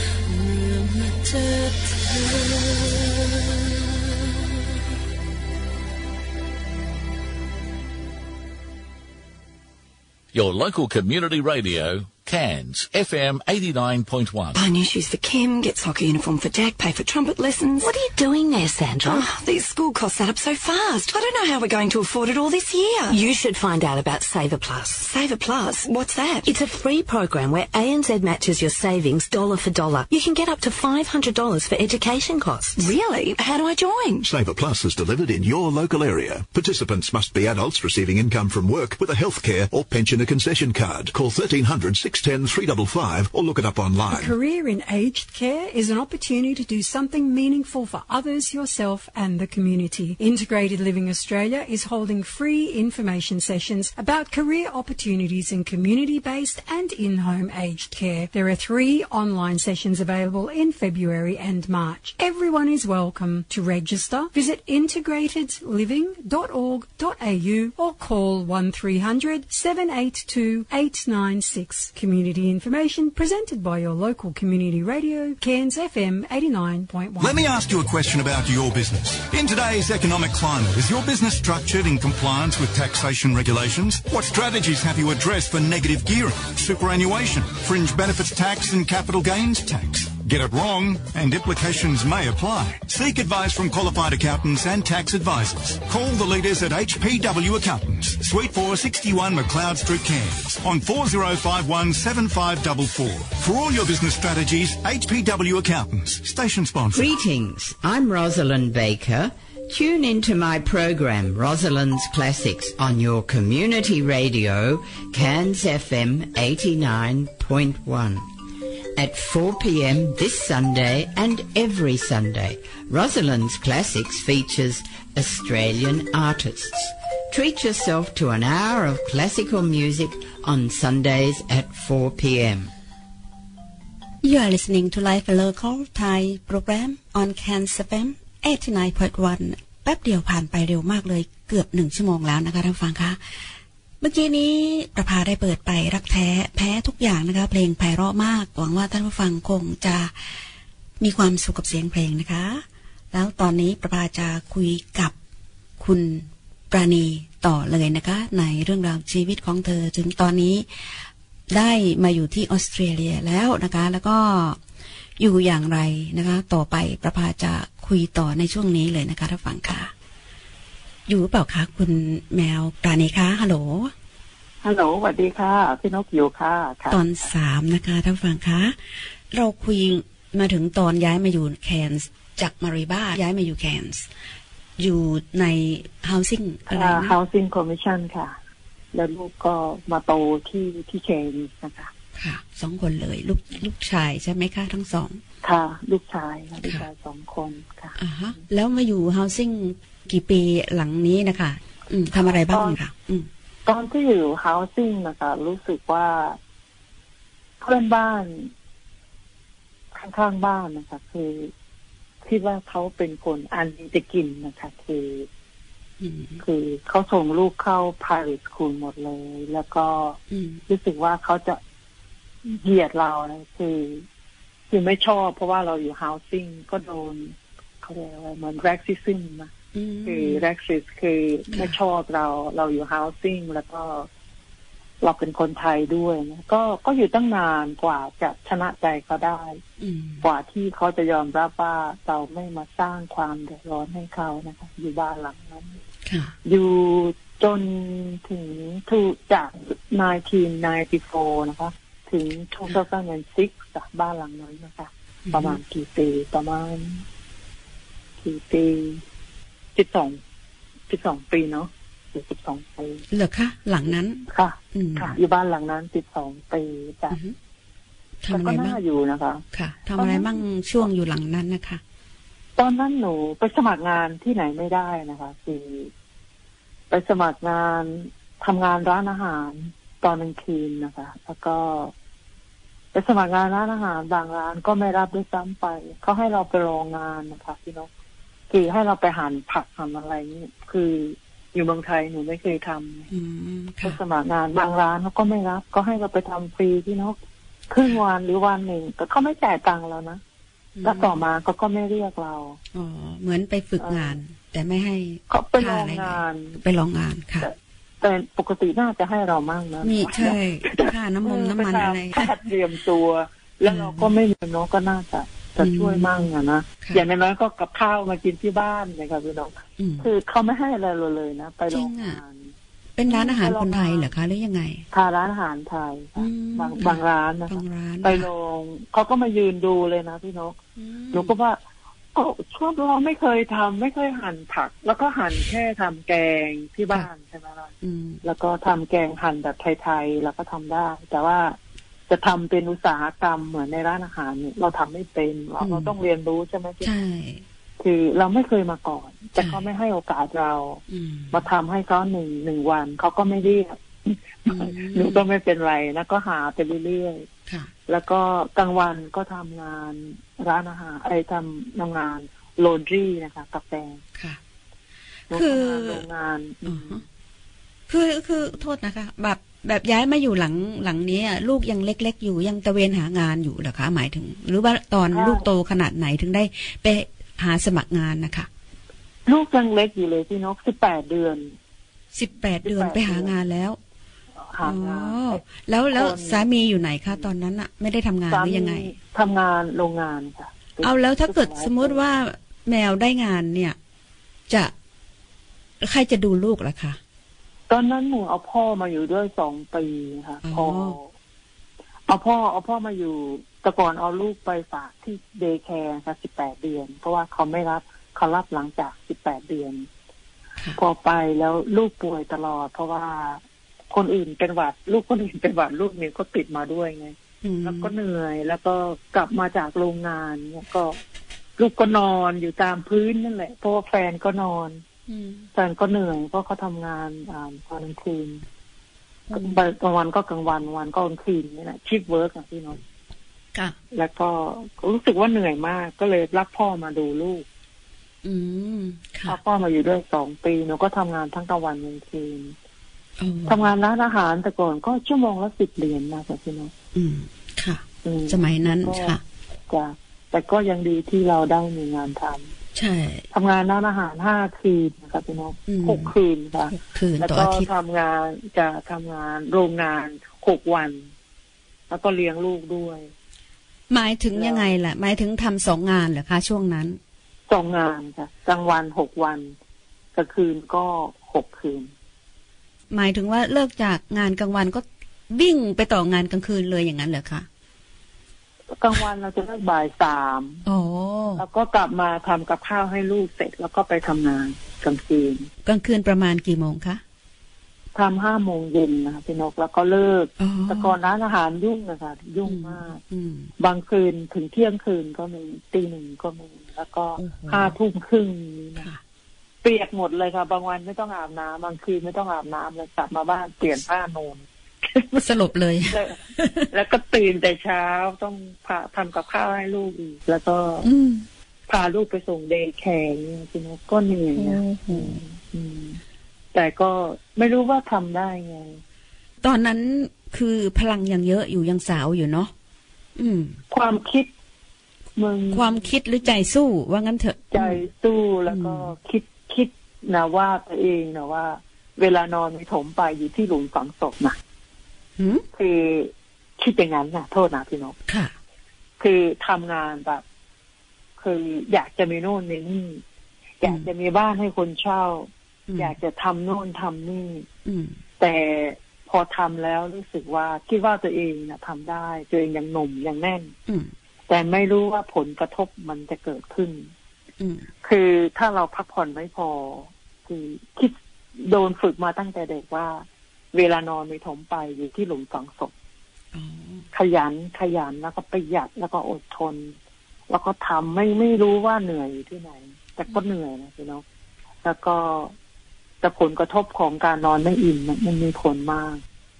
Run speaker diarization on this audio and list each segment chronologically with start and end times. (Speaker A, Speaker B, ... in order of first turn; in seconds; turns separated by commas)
Speaker A: 0.3-3.7, Speaker B: 10.3-14.6, Speaker C: 14.5-18.0, Speaker D: 17.8-19.3, Speaker C: 19.0-23.2, Speaker D: 23.1-25.1, Speaker C: 25.0-26.5, Speaker D: 26.4-32.9, Speaker C: 32.8-34.3, Speaker E: 34.2-44.4, Speaker F: 44.1-77.4, Speaker G: 77.2-107.1, Speaker H: 106.9-118.3, Speaker H: 119.0-132.7, Speaker I: 134.2-143.2, Speaker I: 144.0-150.1, Speaker I: 151.0-155.1, Speaker I: 155.8-160.7, Speaker I: 161.5-164.6, Speaker I: 165.2-169.9, Speaker I: 171.1-173.9, Speaker J: 174.6-177.0, Speaker I: 176.9-178.8, Speaker I: 179.3-184.1, Speaker I: 184.8-187.2, Speaker J: 186.7-188.3, Speaker J: 188.9-191.9, Speaker I: 192.2-195.2, Speaker J: 195.4-197.9, Speaker I: 198.0-203.3, Speaker J: 202.5-202.8, Speaker J: 203.7-206.4, Speaker J: 207.6-208.5, Speaker J: 209.9-211.5, Speaker J: 212.2-215.3, Speaker I: 216.0-216.4, Speaker J: 216.4-221.6, Speaker I: 220.3-220.6, Speaker J: 222.4-224.1, Speaker J: 224.7-229.5, Speaker I: 229.7-230.4, Speaker J: 230.1-234.1, Speaker J: 235.0-239.6, Speaker I: 239.8-240.2, Speaker J: 240.2-245.8, Speaker I: 246.1-246.3, Speaker J: 246.4-257.0, Speaker I: 255.3-255.6, Speaker J: 258.2-259.0, Speaker J: 259.8-260.2, Speaker J: 260.9-263.0, Speaker I: 263.1-265.2, Speaker J: 264.3-267.2, Speaker I: 268.2-268.8, Speaker J: 268.3-269.4, Speaker I: 269.5-271.8, Speaker J: 270.0-270.3, Speaker J: 272.6-275.9, Speaker J: 276.9-281.9, Speaker J: 282.9-287.9, Speaker J: 288.5-293.1, Speaker I: 293.1-294.0, Speaker J: 293.8-297.2, Speaker J: 297.7-300.2, Speaker I: 300.8-301.2, Speaker J: 300.8-302.6, Speaker I: 302.7-307.5, Speaker J: 303.8-304.2, Speaker J: 305.3-306.6, Speaker J: 307.4-322.5, Speaker I: 309.8-312.3, Speaker I: 313.6-314.1, Speaker I: 315.6-316.3, Speaker I: 319.8-320.1, Speaker I: 321.7-322.2, Speaker I: 323.0-324.9, Speaker J: 323.1-324.1, Speaker J: 324.9-330.6, Speaker I: 326.2-328.3, Speaker I: 330.8-331.3, Speaker J: 331.1-331.6, Speaker J: 332.1-341.6, Speaker I: 337.8-338.2, Speaker J: 342.1-346.9, Speaker I: 345.6-345.9, Speaker I: 346.8-347.4, Speaker J: 347.8-357.3, Speaker I: 349.4-349.6, Speaker I: 350.9-351.4, Speaker I: 354.5-355.2, Speaker J: 357.9-364.0, Speaker J: 365.3-367.0, Speaker I: 365.3-366.0, Speaker I: 366.6-367.0, Speaker I: 367.9-378.5, Speaker J: 375.1-375.5, Speaker J: 379.3-381.5, Speaker I: 382.1-383.8, Speaker J: 382.6-383.3, Speaker J: 384.5-386.4, Speaker I: 384.6-388.9, Speaker J: 388.3-392.0, Speaker I: 390.8-393.8, Speaker I: 395.8-397.0, Speaker J: 397.7-401.1, Speaker I: 400.4-401.0, Speaker J: 402.1-409.9, Speaker J: 410.8-421.0, Speaker I: 417.4-417.9, Speaker J: 421.6-424.8, Speaker I: 425.1-425.5, Speaker J: 425.6-428.4, Speaker I: 429.3-429.6, Speaker J: 429.3-432.8, Speaker J: 433.9-437.4, Speaker I: 438.2-439.4, Speaker J: 439.3-442.6, Speaker I: 443.2-443.6, Speaker J: 443.5-446.7, Speaker I: 446.9-449.2, Speaker J: 448.0-449.2, Speaker J: 449.7-452.5, Speaker I: 452.8-453.2, Speaker J: 453.3-461.1, Speaker I: 455.7-456.1, Speaker I: 456.7-457.7, Speaker J: 461.9-463.1, Speaker I: 463.9-467.0, Speaker J: 464.3-464.8, Speaker J: 467.5-469.5, Speaker J: 470.1-471.9, Speaker I: 472.9-477.5, Speaker J: 478.8-480.6, Speaker I: 480.7-481.4, Speaker J: 481.4-485.5, Speaker I: 485.6-487.0, Speaker J: 487.9-493.0, Speaker I: 490.4-490.9, Speaker I: 492.4-493.5, Speaker J: 493.6-498.9, Speaker I: 497.2-497.8, Speaker J: 499.6-504.4, Speaker I: 505.1-506.7, Speaker J: 505.9-506.2, Speaker J: 506.7-510.9, Speaker I: 510.8-511.2, Speaker J: 511.7-516.0, Speaker I: 514.4-515.2, Speaker J: 516.5-518.8, Speaker I: 519.4-522.5, Speaker I: 523.2-523.6, Speaker J: 523.7-524.3, Speaker J: 525.2-525.7, Speaker I: 525.5-527.8, Speaker J: 527.5-534.4, Speaker I: 528.5-528.9, Speaker I: 535.2-535.4, Speaker J: 535.5-538.0, Speaker I: 538.1-538.3, Speaker J: 539.0-540.2, Speaker J: 541.2-543.0, Speaker J: 543.6-547.5, Speaker I: 545.7-545.9, Speaker I: 547.6-548.0, Speaker J: 548.2-553.5, Speaker I: 553.7-553.9, Speaker J: 554.3-556.9, Speaker I: 557.4-557.7, Speaker J: 557.8-565.7, Speaker I: 566.3-566.9, Speaker J: 566.9-569.7, Speaker J: 570.3-574.0, Speaker J: 574.6-575.3, Speaker J: 576.0-579.0